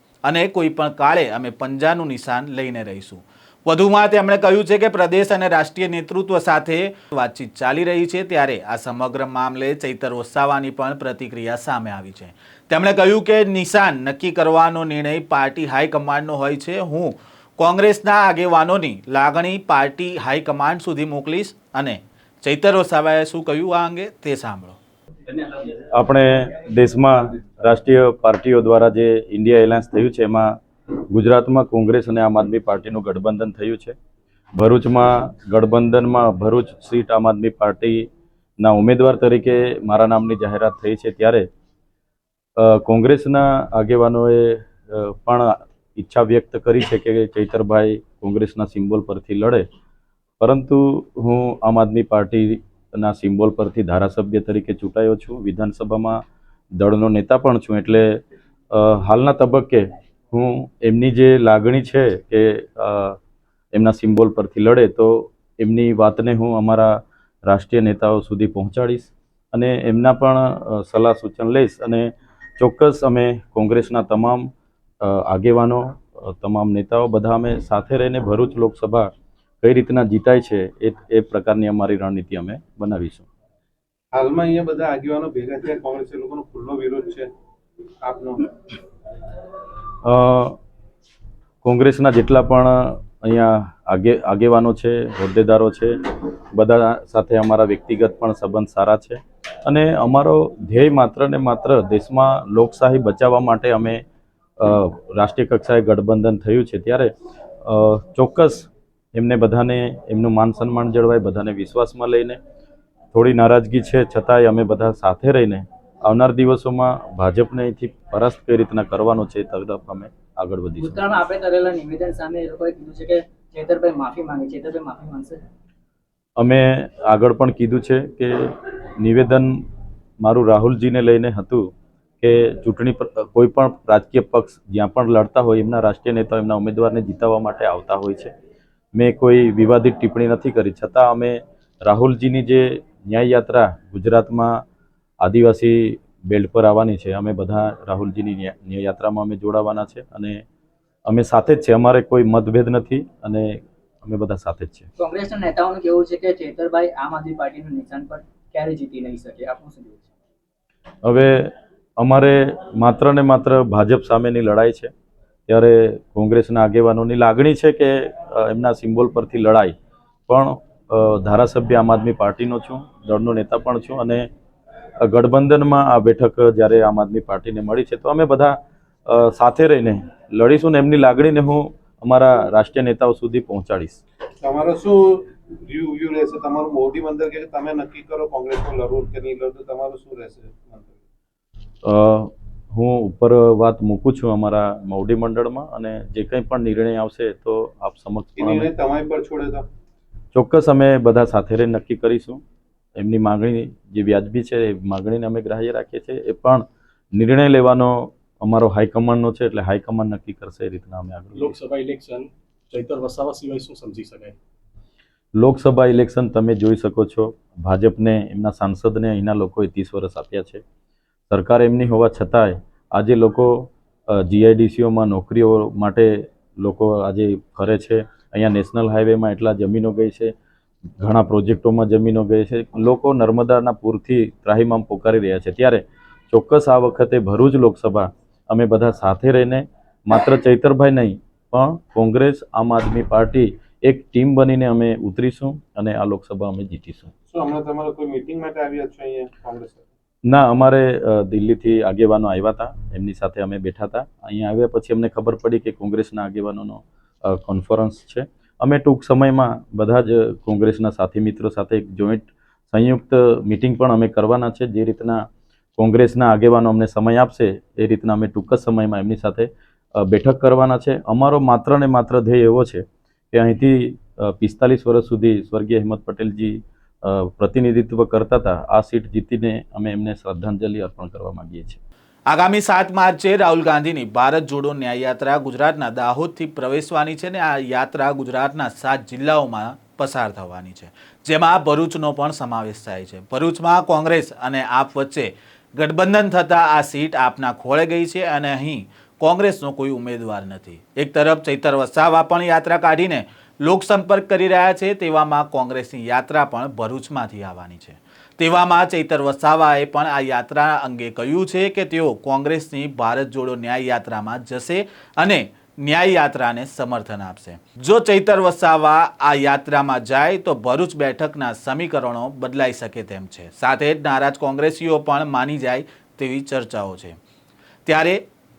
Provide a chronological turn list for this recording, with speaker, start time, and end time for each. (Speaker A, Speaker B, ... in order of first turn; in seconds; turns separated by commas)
Speaker A: 0.2-24.8, Speaker B: 25.3-30.5, Speaker B: 31.1-34.0, Speaker B: 34.6-38.1, Speaker B: 38.6-41.5, Speaker B: 42.6-49.6, Speaker B: 50.4-56.2, Speaker B: 56.8-58.1, Speaker B: 58.7-63.2, Speaker B: 63.7-74.5, Speaker B: 75.0-79.1, Speaker B: 79.6-83.3, Speaker C: 84.1-87.3, Speaker C: 88.0-88.5, Speaker B: 90.0-90.6, Speaker B: 91.6-104.0, Speaker B: 104.6-107.1, Speaker B: 107.6-112.4, Speaker B: 113.1-121.0, Speaker D: 120.8-125.4, Speaker B: 126.4-129.6, Speaker B: 130.2-138.3, Speaker B: 139.0-144.6, Speaker B: 145.2-150.4, Speaker B: 151.1-154.9, Speaker D: 155.0-160.1, Speaker B: 161.1-164.9, Speaker B: 165.5-169.7, Speaker B: 170.3-174.3, Speaker B: 175.0-178.6, Speaker B: 179.1-184.0, Speaker C: 184.4-191.0, Speaker B: 191.8-198.7, Speaker C: 198.4-199.7, Speaker B: 200.3-202.4, Speaker B: 203.0-211.5, Speaker E: 211.3-214.4, Speaker B: 215.4-220.6, Speaker B: 221.3-230.3, Speaker B: 231.0-247.1, Speaker C: 247.3-249.9, Speaker B: 250.3-265.2, Speaker B: 265.8-281.8, Speaker A: 282.3-327.2, Speaker A: 327.9-328.2